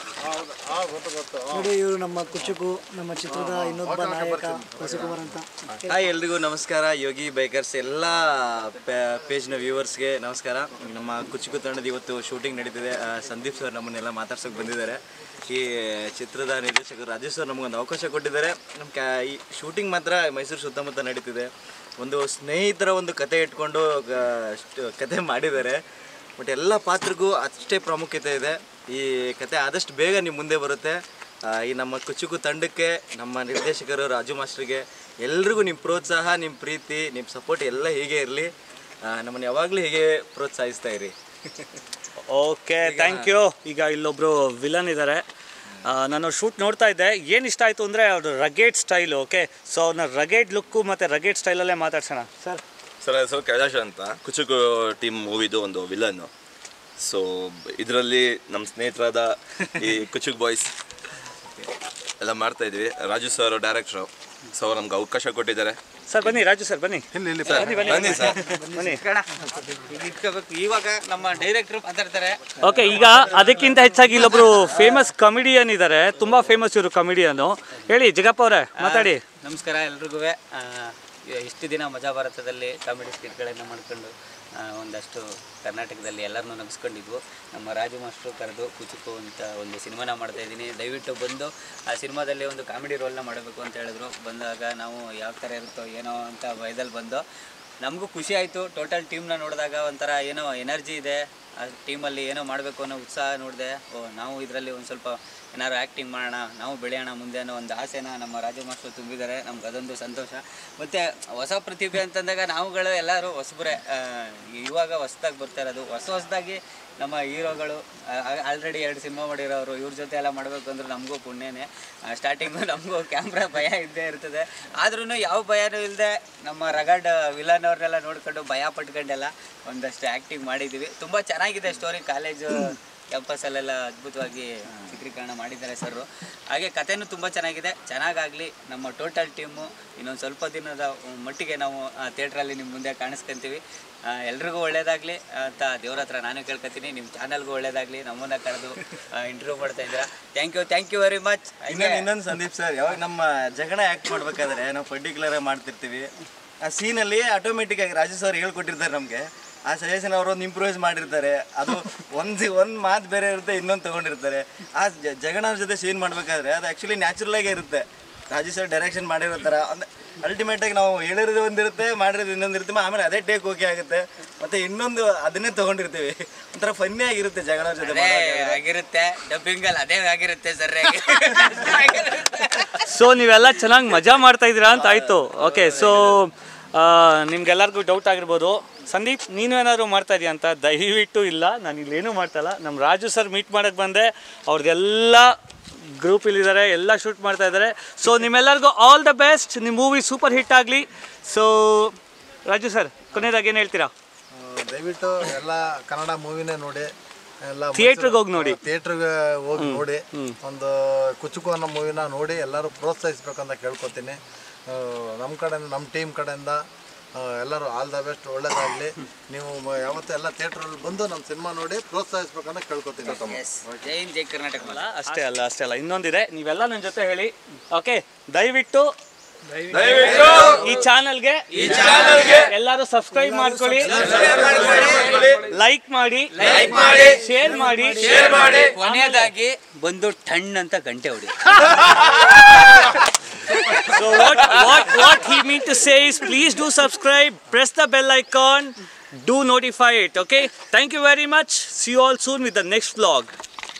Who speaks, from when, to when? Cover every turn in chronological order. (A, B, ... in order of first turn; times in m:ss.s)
0:00.2-0:01.8 A
0:01.5-0:05.4 B
0:03.3-0:05.8 A
0:05.8-0:25.8 C
0:26.4-0:31.0 C
0:31.5-0:38.5 C
0:39.0-0:41.1 C
0:42.2-0:45.2 D
0:42.8-0:43.3 C
0:45.8-0:52.6 D
0:53.0-0:56.3 E
0:57.0-1:00.7 E
1:02.2-1:05.8 E
1:06.1-1:09.0 D
1:07.1-1:08.3 A
1:07.9-1:08.3 E
1:08.8-1:13.6 F
1:12.6-1:19.2 D
1:14.4-1:14.7 F
1:18.8-1:37.2 F
1:37.8-2:23.6 F
2:24.1-2:32.1 F
2:31.7-2:36.1 C
2:36.6-2:58.6 C
2:57.8-3:02.7 F
3:02.8-3:23.9 D
3:05.1-3:05.9 F
3:24.3-3:26.9 A
3:27.4-3:36.6 A
3:27.7-3:28.6 D
3:29.6-3:30.4 D
3:37.2-3:43.7 A
3:43.0-3:44.9 F
3:44.6-3:48.9 D
3:50.0-3:50.4 F
3:50.4-3:51.5 D
3:51.5-3:52.4 F
3:52.2-3:54.1 D
3:53.3-3:53.6 B
3:53.9-3:55.3 F
3:54.5-3:54.9 C
3:55.3-3:56.5 D
3:56.4-3:57.2 F
3:57.0-3:59.3 D
3:58.0-4:01.9 F
4:03.7-4:13.3 D